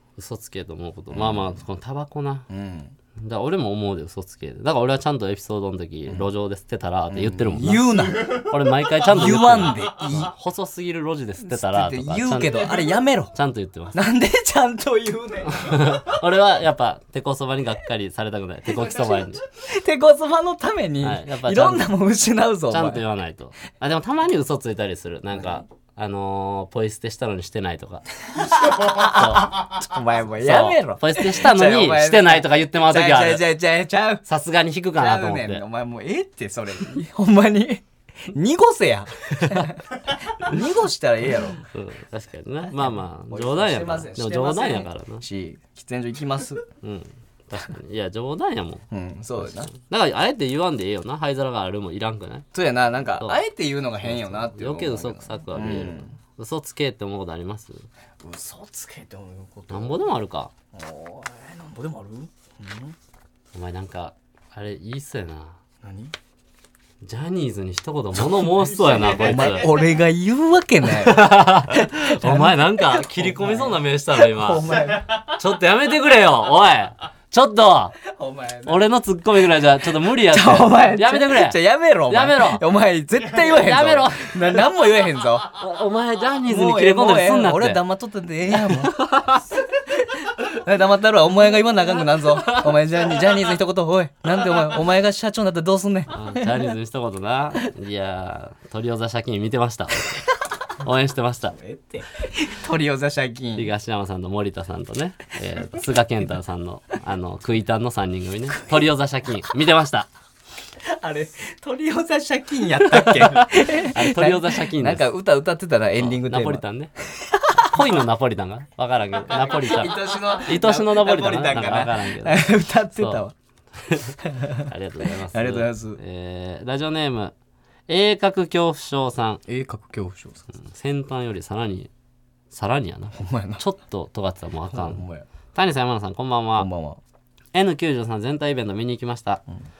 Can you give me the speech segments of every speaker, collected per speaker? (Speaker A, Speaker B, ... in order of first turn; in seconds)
Speaker A: 0.2-2.5, 3.2-14.0, 15.5-19.4, 21.0-21.9, 22.7-29.8, 30.4-33.5, 34.2-35.6, 39.4-39.7, 41.6-45.2, 46.8-48.8, 49.4-52.5, 54.0-57.9, 59.7-60.5, 63.5-65.6, 67.0-69.7, 70.9-78.0, 78.7-82.6, 83.3-84.6, 85.5-87.8, 88.6-89.5, 92.3-92.7, 96.1-100.2, 100.8-101.6, 103.5-110.1, 112.9-115.0, 116.0-116.9, 117.5-122.4, 122.9-123.2, 123.8-127.3, 127.9-129.4, 130.5-131.9, 132.5-136.7, 137.5-139.4
Speaker B: 1.1-1.6, 2.5-2.9, 7.1-8.5, 9.0-10.3, 11.4-13.3, 13.9-16.1, 18.7-23.0, 25.3-25.6, 28.3-34.2, 34.9-41.6, 42.7-46.6, 48.9-49.7, 52.5-56.1, 58.2-60.1, 60.7-63.0, 65.8-66.1, 68.2-75.4, 78.1-78.8, 80.0-85.5, 86.5-89.1, 89.7-96.7, 101.5-103.7, 110.8-118.0, 119.2-123.3, 124.2-124.7, 125.2-126.0, 129.5-130.5, 133.1-133.6, 134.7-135.2, 136.6-137.0